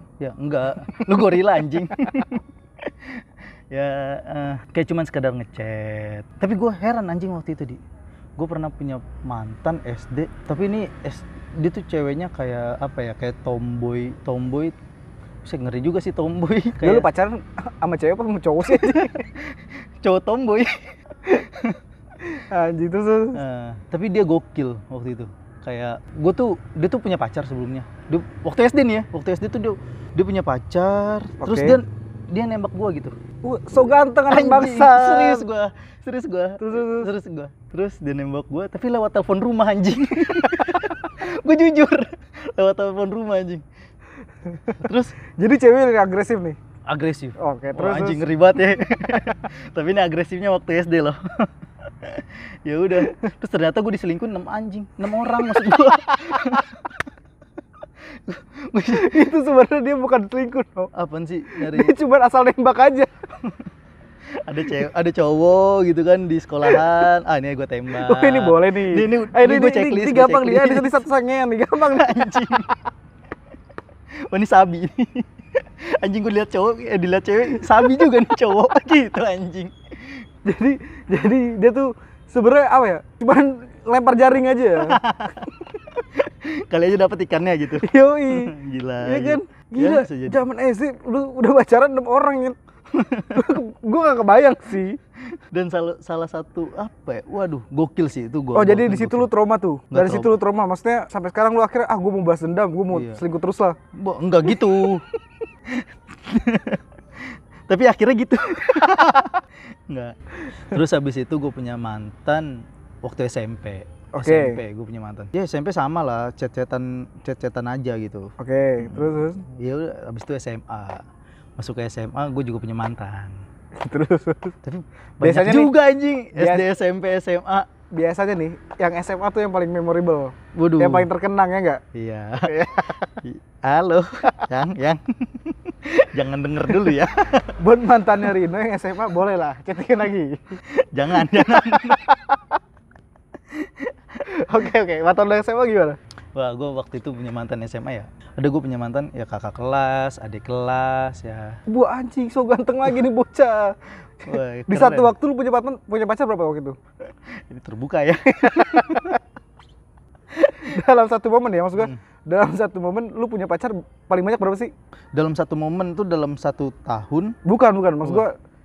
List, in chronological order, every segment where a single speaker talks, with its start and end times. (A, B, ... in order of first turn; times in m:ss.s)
0:00.2-0:07.8 A
0:01.0-0:01.6 B
0:08.4-0:14.8 A
0:15.4-0:17.1 A
0:16.8-0:19.2 B
0:18.7-0:21.8 A
0:22.3-0:23.4 B
0:23.3-0:33.2 A
0:31.4-0:31.8 B
0:33.4-0:35.5 B
0:34.3-0:43.6 A
0:36.6-0:37.1 B
0:44.8-0:45.2 A
0:45.4-0:46.6 B
0:46.9-0:56.8 A
0:47.4-0:48.3 B
0:58.3-0:59.3 A
0:58.9-1:00.9 B
1:00.9-1:01.9 A
1:01.5-1:03.1 B
1:04.4-1:11.0 A
1:08.0-1:12.5 B
1:11.8-1:12.7 A
1:14.3-1:20.3 A
1:20.5-1:25.0 B
1:24.8-1:30.4 A
1:27.8-1:32.6 B
1:32.9-1:33.4 A
1:33.3-1:35.0 B
1:35.3-1:39.3 A
1:38.5-1:43.8 B
1:39.9-1:40.4 A
1:42.9-1:43.2 A
1:44.0-1:45.0 A
1:44.4-1:44.9 B
1:45.8-1:46.8 A
1:47.7-2:01.0 A
1:54.1-1:54.6 B
1:58.4-1:59.4 B
2:01.6-2:03.4 A
2:03.8-2:04.6 B
2:04.6-2:07.7 A
2:05.2-2:05.7 B
2:06.4-2:06.7 B
2:07.9-2:11.8 B
2:10.5-2:11.1 A
2:11.9-2:12.6 A
2:12.4-2:13.2 B
2:13.2-2:17.6 A
2:17.6-2:20.6 B
2:20.8-2:22.1 A
2:21.1-2:22.4 B
2:24.4-2:26.0 B
2:26.3-2:31.6 A
2:31.7-2:33.8 B
2:34.3-2:35.1 A
2:34.3-2:36.8 B
2:37.4-2:39.2 A
2:38.6-2:39.1 B
2:40.6-2:44.7 B
2:45.1-2:47.4 A
2:47.4-2:48.3 B